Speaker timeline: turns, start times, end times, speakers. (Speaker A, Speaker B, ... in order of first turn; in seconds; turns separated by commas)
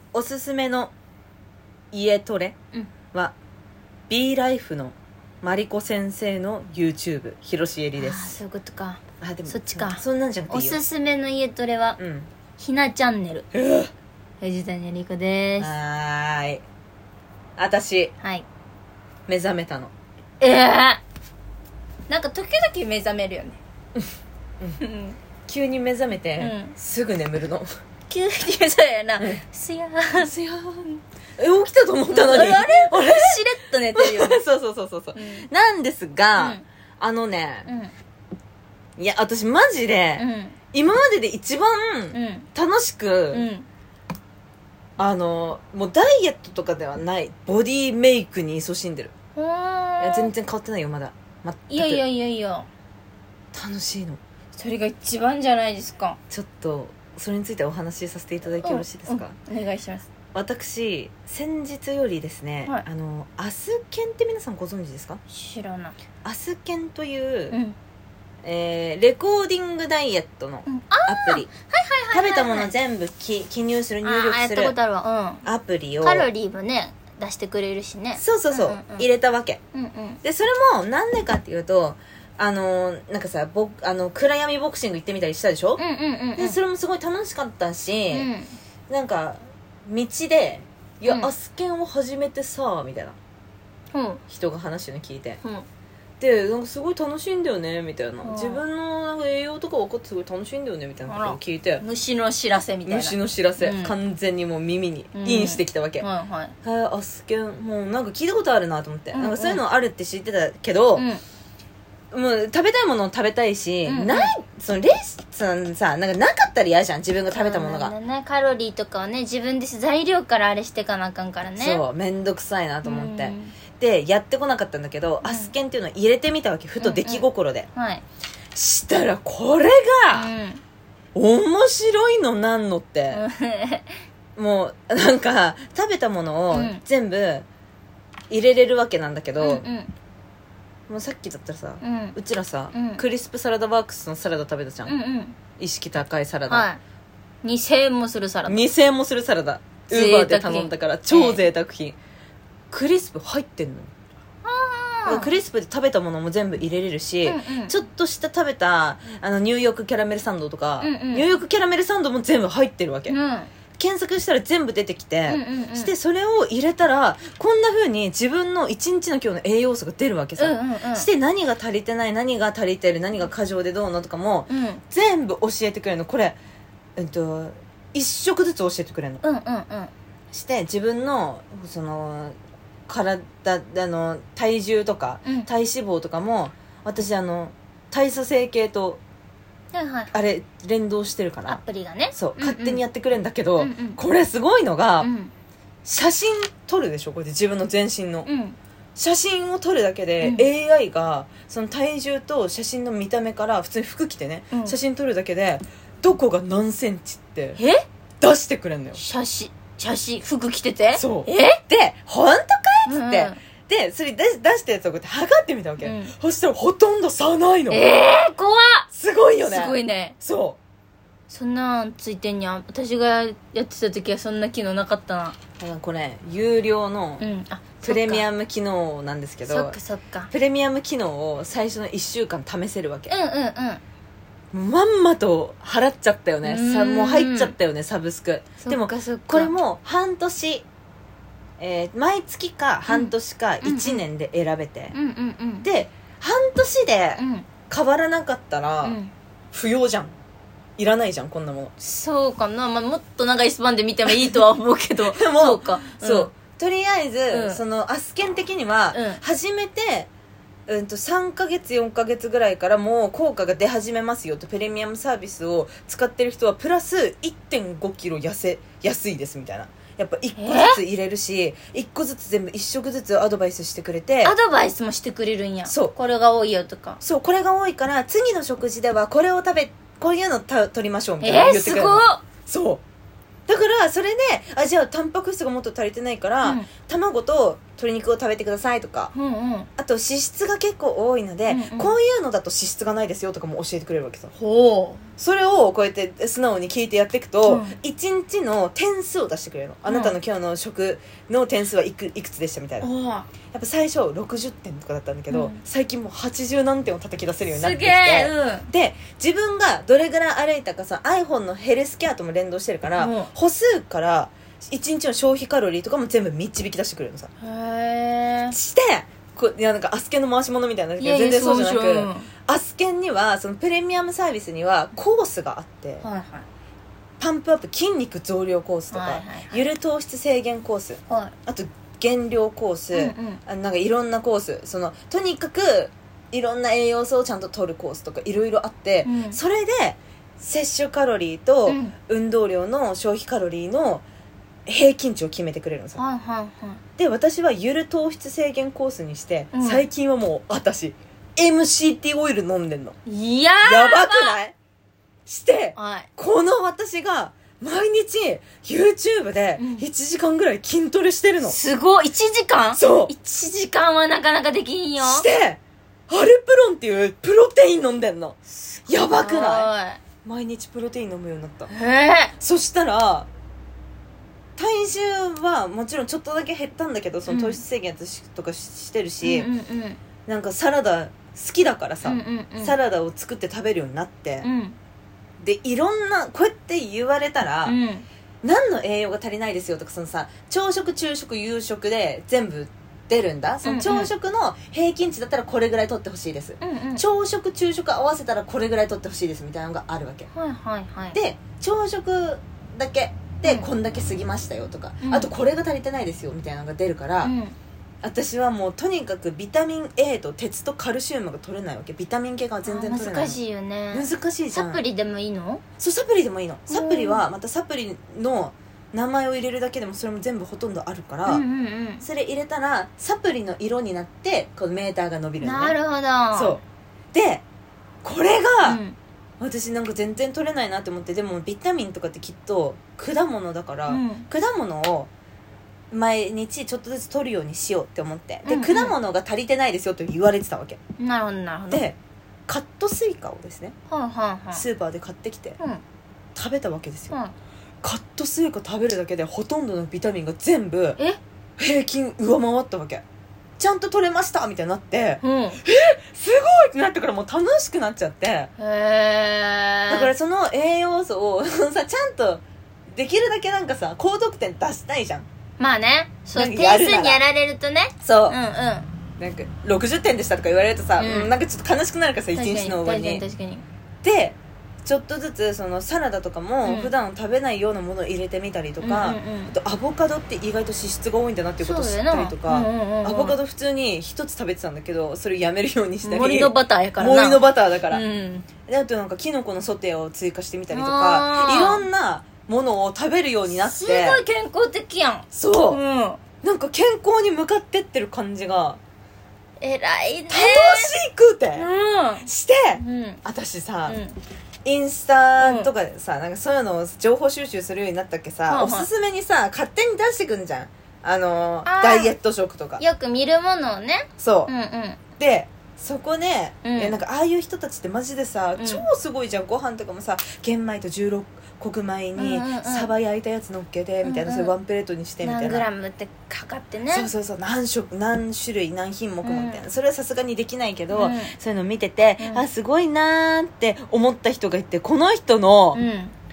Speaker A: 0.1-0.9, Speaker A: 1.9-2.5, Speaker A: 4.1-8.4, Speaker B: 8.0-12.0, Speaker A: 9.2-10.8, Speaker A: 12.0-12.3, Speaker B: 12.6-13.5, Speaker A: 13.5-13.9, Speaker B: 14.4-15.7, Speaker A: 15.6-16.6, Speaker A: 17.6-18.1, Speaker B: 18.2-18.5, Speaker A: 19.3-19.9, Speaker B: 20.4-21.0, Speaker B: 22.1-23.6, Speaker B: 24.8-25.2, Speaker A: 25.5-27.7, Speaker B: 26.4-26.8, Speaker B: 28.1-30.3, Speaker A: 30.2-33.4, Speaker B: 32.1-34.4, Speaker A: 34.0-37.7, Speaker B: 35.2-35.5, Speaker B: 36.4-36.6, Speaker B: 37.7-37.9, Speaker A: 39.0-43.5, Speaker B: 40.2-40.6, Speaker B: 42.1-42.5, Speaker B: 43.3-43.7, Speaker A: 45.0-49.1, Speaker B: 49.4-50.3, Speaker A: 50.0-52.0, Speaker B: 51.7-52.7, Speaker A: 53.5-54.2, Speaker B: 54.5-56.2, Speaker A: 56.3-59.4, Speaker B: 58.6-60.0, Speaker A: 60.3-65.2, Speaker B: 65.3-66.0, Speaker A: 66.2-67.6, Speaker B: 67.5-67.8, Speaker A: 68.4-71.5, Speaker B: 70.7-72.7, Speaker A: 72.1-74.8, Speaker B: 74.0-75.5, Speaker A: 75.4-76.3, Speaker B: 76.0-79.1, Speaker A: 78.2-79.6, Speaker B: 79.7-80.2, Speaker A: 80.2-85.8, Speaker B: 85.8-86.6, Speaker A: 86.4-88.3, Speaker B: 88.1-88.5, Speaker A: 88.9-93.2, Speaker B: 91.1-91.3, Speaker B: 93.9-94.2, Speaker A: 94.3-95.4, Speaker A: 96.2-101.8, Speaker B: 98.2-98.6, Speaker B: 101.1-104.0, Speaker A: 102.9-106.1, Speaker B: 105.1-106.5, Speaker A: 106.6-111.1, Speaker B: 109.1-109.6, Speaker B: 111.0-111.2, Speaker A: 112.1-118.0, Speaker B: 113.8-114.3, Speaker B: 117.3-121.8, Speaker A: 121.6-127.7, Speaker B: 122.8-123.6, Speaker B: 125.2-125.5, Speaker B: 126.8-128.0, Speaker A: 128.5-130.3, Speaker B: 130.1-130.6, Speaker A: 131.2-133.2, Speaker B: 133.1-133.9, Speaker A: 134.4-137.5, Speaker B: 136.5-136.8, Speaker A: 138.3-139.7, Speaker B: 139.4-139.9, Speaker A: 140.9-145.0, Speaker B: 141.8-142.2, Speaker B: 142.7-143.1, Speaker B: 144.9-145.4, Speaker A: 145.6-146.7, Speaker B: 146.5-146.8, Speaker B: 147.4-148.6, Speaker A: 148.5-152.0, Speaker B: 149.9-151.4, Speaker A: 152.7-153.9, Speaker B: 154.4-155.3, Speaker A: 155.1-163.2, Speaker B: 157.3-157.8, Speaker B: 160.8-161.4, Speaker B: 163.1-163.5, Speaker A: 163.8-176.4, Speaker B: 165.3-165.9, Speaker B: 170.4-171.1, Speaker B: 174.5-174.8, Speaker A: 177.0-179.2, Speaker B: 179.2-179.9, Speaker A: 180.3-182.3, Speaker A: 182.9-189.0, Speaker B: 185.2-185.5, Speaker B: 189.7-190.2, Speaker A: 190.1-191.6, Speaker B: 191.5-192.8, Speaker A: 192.2-195.1, Speaker B: 193.6-194.0, Speaker B: 195.0-195.3, Speaker A: 195.8-198.3, Speaker B: 198.3-198.6, Speaker A: 199.0-207.6, Speaker B: 200.2-200.5, Speaker B: 204.5-204.8, Speaker B: 207.6-207.8, Speaker A: 208.2-209.0, Speaker B: 208.9-211.6, Speaker A: 210.9-217.8, Speaker B: 212.9-213.4, Speaker B: 215.8-216.2, Speaker B: 217.7-218.9, Speaker A: 218.9-220.6, Speaker B: 219.4-220.2, Speaker B: 221.3-225.4, Speaker A: 225.6-227.3, Speaker B: 227.2-228.3, Speaker A: 227.8-229.8, Speaker B: 229.5-230.3, Speaker A: 230.3-233.1, Speaker B: 233.1-233.8, Speaker A: 234.5-240.7, Speaker B: 236.4-237.5, Speaker B: 238.6-239.6, Speaker A: 241.6-244.9, Speaker B: 242.9-244.0, Speaker B: 244.9-245.7, Speaker A: 245.6-249.0, Speaker B: 247.2-247.5, Speaker B: 248.8-249.1, Speaker A: 249.5-250.2, Speaker A: 250.8-251.7, Speaker B: 251.8-256.3, Speaker A: 254.1-254.4, Speaker A: 255.0-260.1, Speaker B: 257.3-257.6, Speaker B: 258.9-259.2, Speaker A: 260.7-274.4, Speaker B: 270.4-270.8, Speaker B: 274.2-277.0, Speaker A: 275.7-275.9, Speaker A: 277.0-282.8, Speaker B: 281.2-282.2, Speaker A: 283.5-289.1, Speaker B: 286.4-286.7, Speaker B: 289.1-289.7, Speaker A: 289.8-294.3, Speaker B: 291.5-292.0, Speaker B: 294.4-295.0, Speaker A: 295.2-302.9, Speaker B: 297.4-297.8, Speaker B: 299.9-300.2, Speaker B: 302.8-303.3, Speaker A: 303.5-317.3, Speaker B: 305.3-305.6, Speaker B: 307.5-308.7, Speaker B: 313.0-313.3, Speaker B: 317.4-318.6, Speaker A: 318.5-326.1, Speaker B: 321.0-322.3, Speaker B: 326.0-326.5, Speaker A: 327.2-344.1, Speaker B: 328.9-329.6, Speaker B: 331.1-331.4, Speaker B: 332.9-333.4, Speaker B: 339.0-339.4, Speaker B: 341.7-341.9, Speaker A: 344.7-346.0, Speaker B: 346.0-346.8, Speaker A: 347.0-353.0, Speaker B: 349.5-349.9, Speaker B: 353.1-354.4, Speaker A: 353.6-354.6, Speaker A: 355.3-361.6, Speaker B: 355.8-356.1, Speaker B: 359.6-359.9, Speaker B: 361.5-365.3, Speaker A: 362.8-363.1, Speaker A: 365.0-369.7, Speaker B: 368.5-370.0, Speaker A: 370.2-371.7, Speaker B: 371.7-372.4, Speaker A: 372.4-373.3, Speaker A: 374.6-379.5, Speaker B: 377.3-377.6, Speaker B: 379.2-380.0, Speaker A: 380.3-384.5, Speaker B: 382.1-382.8, Speaker B: 384.4-384.8, Speaker A: 385.4-387.8, Speaker B: 387.7-388.1, Speaker A: 388.4-400.3, Speaker B: 393.6-394.1, Speaker B: 396.6-397.0, Speaker B: 400.3-401.2, Speaker A: 401.1-407.3, Speaker B: 405.0-405.3, Speaker B: 407.2-407.6, Speaker A: 408.0-413.4, Speaker B: 412.6-415.6, Speaker A: 413.9-414.8, Speaker A: 415.8-421.4, Speaker B: 416.7-417.2, Speaker B: 421.3-422.1, Speaker A: 422.0-425.8, Speaker B: 425.4-426.6, Speaker A: 426.3-426.6, Speaker A: 427.1-427.4, Speaker A: 428.0-428.8, Speaker B: 428.6-429.0, Speaker A: 429.4-435.1, Speaker B: 433.9-434.3, Speaker A: 435.9-440.8, Speaker B: 438.4-438.9, Speaker B: 441.0-441.9, Speaker A: 441.7-442.0, Speaker A: 442.5-443.8, Speaker B: 443.9-444.6, Speaker A: 444.5-445.6, Speaker A: 446.4-447.2, Speaker A: 447.8-451.0, Speaker A: 451.6-453.0, Speaker A: 453.6-458.5, Speaker B: 455.2-455.6, Speaker B: 458.6-460.1, Speaker A: 459.9-465.3, Speaker B: 465.6-468.9, Speaker A: 466.3-467.2, Speaker A: 468.0-468.4, Speaker A: 469.2-473.2, Speaker B: 471.0-471.3, Speaker B: 472.3-473.6, Speaker A: 474.0-488.0, Speaker B: 476.6-476.9, Speaker B: 478.8-479.6, Speaker B: 481.6-483.4, Speaker B: 486.0-488.5, Speaker A: 488.6-494.2, Speaker B: 490.7-491.9, Speaker B: 493.5-496.2, Speaker A: 495.3-495.8, Speaker A: 496.4-498.8, Speaker B: 499.6-500.9, Speaker A: 500.3-501.7, Speaker B: 501.6-503.2, Speaker A: 502.2-504.0, Speaker B: 503.9-504.2, Speaker A: 504.6-512.8, Speaker B: 505.4-505.7, Speaker B: 508.5-508.9, Speaker B: 511.7-512.1, Speaker B: 512.8-515.0, Speaker A: 514.2-514.5, Speaker A: 515.2-525.7, Speaker B: 516.6-517.0, Speaker B: 518.6-518.9, Speaker B: 522.2-522.9, Speaker B: 524.0-524.5, Speaker B: 525.2-527.1, Speaker A: 526.9-535.8, Speaker B: 529.2-529.7, Speaker B: 530.9-531.3, Speaker B: 532.2-532.5, Speaker B: 535.8-536.1